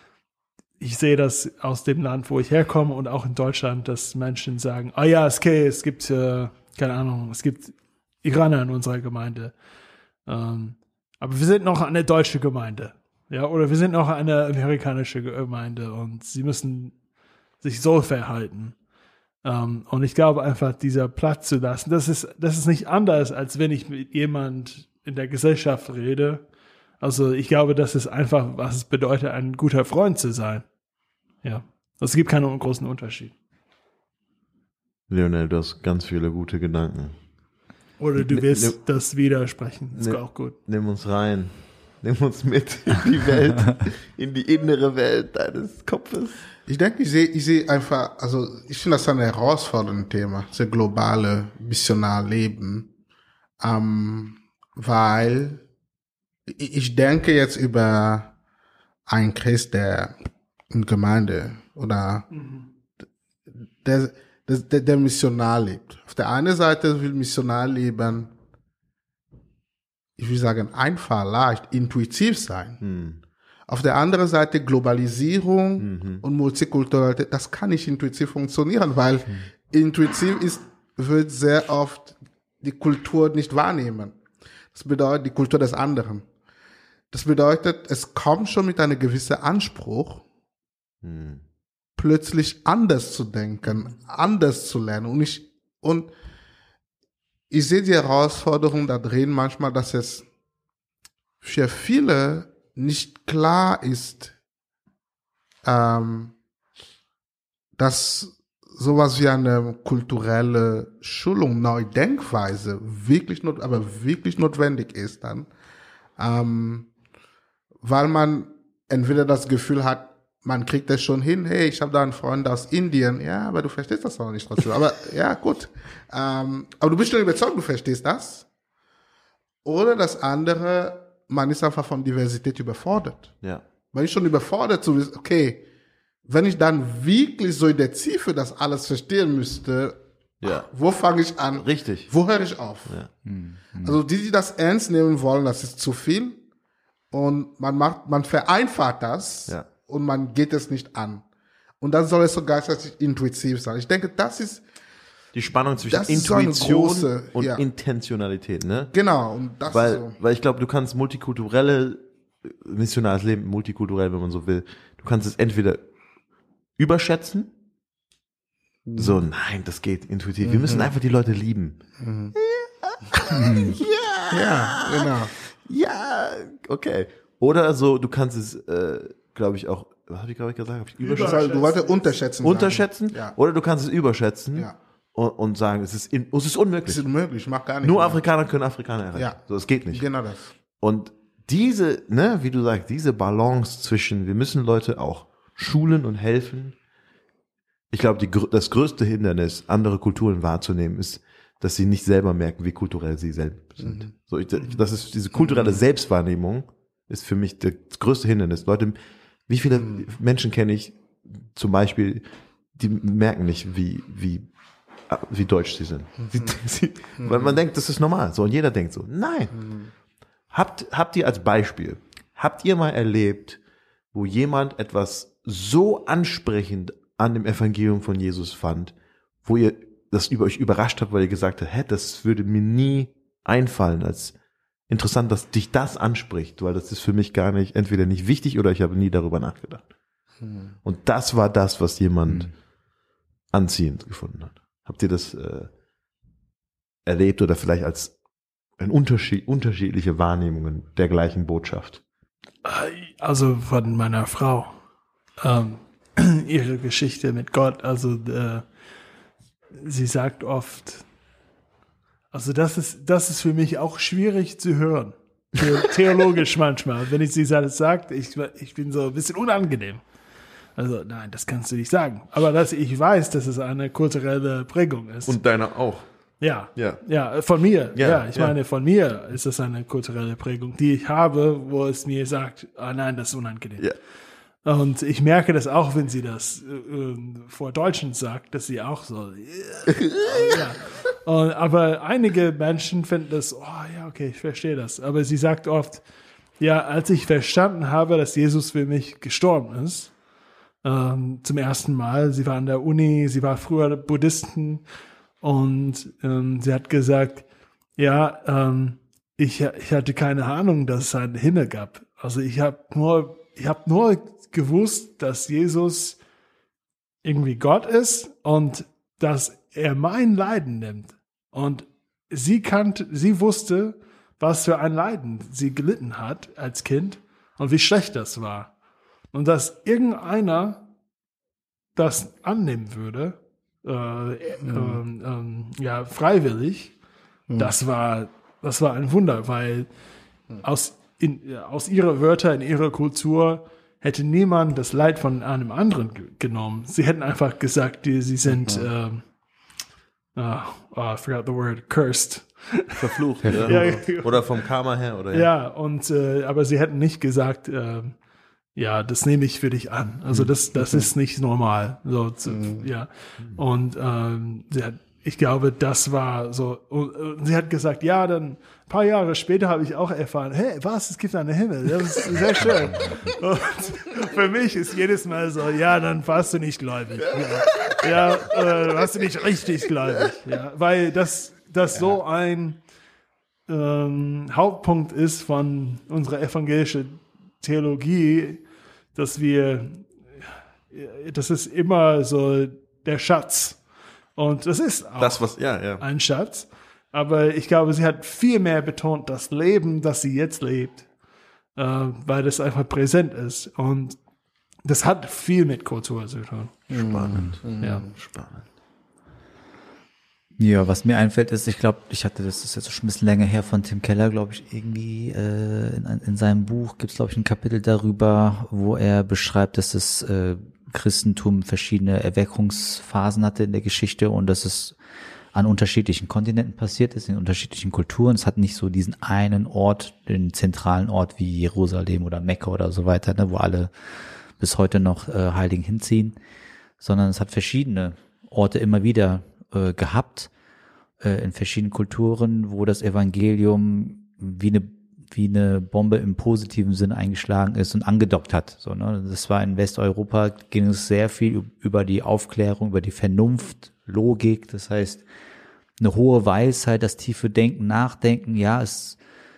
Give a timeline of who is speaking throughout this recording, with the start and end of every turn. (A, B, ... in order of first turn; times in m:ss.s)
0:00.8-0:09.5 A
0:10.2-0:16.9 A
0:17.6-0:18.8 A
0:19.4-0:26.4 A
0:27.0-0:30.6 A
0:31.4-0:33.3 A
0:35.1-0:37.2 B
0:38.0-0:40.6 A
0:38.2-0:38.8 B
0:39.9-0:46.4 B
0:46.6-0:52.9 C
0:53.6-0:55.6 C
0:56.5-0:58.3 C
0:59.1-1:00.2 C
1:00.7-1:02.2 C
1:02.3-1:02.6 A
1:03.8-1:08.3 C
1:10.2-1:12.8 C
1:12.8-1:13.2 B
1:13.7-1:24.2 C
1:15.8-1:16.2 B
1:24.7-1:26.3 C
1:27.1-1:30.2 C
1:31.0-1:31.4 B
1:32.0-1:36.1 C
1:37.5-1:40.2 C
1:41.4-1:44.3 C
1:45.6-1:46.3 C
1:47.8-1:55.5 C
1:56.2-1:56.9 C
1:57.8-2:08.4 C
2:09.6-2:13.3 C
2:13.9-2:15.6 C
2:16.2-2:23.0 C
2:20.4-2:20.7 B
2:21.5-2:22.1 B
2:23.2-2:24.0 D
2:23.8-2:26.4 C
2:27.1-2:31.2 C
2:31.8-2:34.6 C
2:35.3-2:38.9 B
2:35.9-2:37.6 C
2:38.9-2:40.2 C
2:39.7-2:45.8 B
2:46.8-2:47.5 B
2:48.8-2:49.2 C
2:49.0-3:01.5 B
2:50.4-2:50.9 C
2:52.0-2:52.3 C
2:53.5-2:53.8 C
2:54.3-2:55.3 C
3:01.0-3:02.1 A
3:01.1-3:03.3 C
3:02.4-3:07.0 B
3:06.8-3:08.2 C
3:07.8-3:10.0 B
3:09.1-3:10.5 C
3:10.8-3:16.8 B
3:17.9-3:34.5 B
3:23.8-3:24.1 C
3:35.1-3:39.6 B
3:36.2-3:36.5 C
3:37.2-3:37.6 C
3:39.5-3:39.9 C
3:40.5-3:43.6 B
3:44.1-3:54.3 B
3:54.9-3:59.8 B
4:00.4-4:00.7 C
4:00.8-4:02.5 B
4:03.5-4:05.7 B
4:07.0-4:08.1 B
4:08.8-4:12.0 B
4:12.6-4:14.7 A
4:15.4-4:18.6 A
4:19.7-4:21.0 A
4:22.3-4:30.0 A
4:30.8-4:35.4 A
4:35.3-4:36.0 B
4:36.4-4:43.9 A
4:36.7-4:37.0 B
4:37.9-4:38.6 B
4:44.6-4:56.0 A
4:50.0-4:50.6 B
4:56.6-5:00.1 A
5:00.8-5:04.8 A
5:05.4-5:07.4 A
5:08.0-5:16.2 A
5:17.2-5:28.7 A
5:29.3-5:30.8 A
5:31.9-5:36.9 A
5:34.6-5:35.0 C
5:37.5-5:37.7 C
5:37.6-5:39.9 A
5:40.6-5:49.2 A
5:48.6-5:48.9 C
5:50.3-5:54.6 A
5:53.0-5:55.5 B
5:53.4-5:53.8 D
5:55.3-5:58.2 A
5:58.7-6:22.8 A
6:02.5-6:02.9 C
6:17.6-6:19.0 B
6:23.7-6:28.6 A
6:29.1-6:33.8 A
6:34.3-6:41.0 A
6:35.2-6:36.0 B
6:41.8-6:44.2 A
6:44.8-6:46.9 A
6:46.9-6:48.1 C
6:46.9-6:48.7 B
6:47.8-6:48.0 A
6:50.6-7:05.0 D
7:05.5-7:13.9 D
7:14.6-7:16.4 D
7:17.0-7:20.5 D
7:21.2-7:35.2 D
7:36.0-7:39.2 D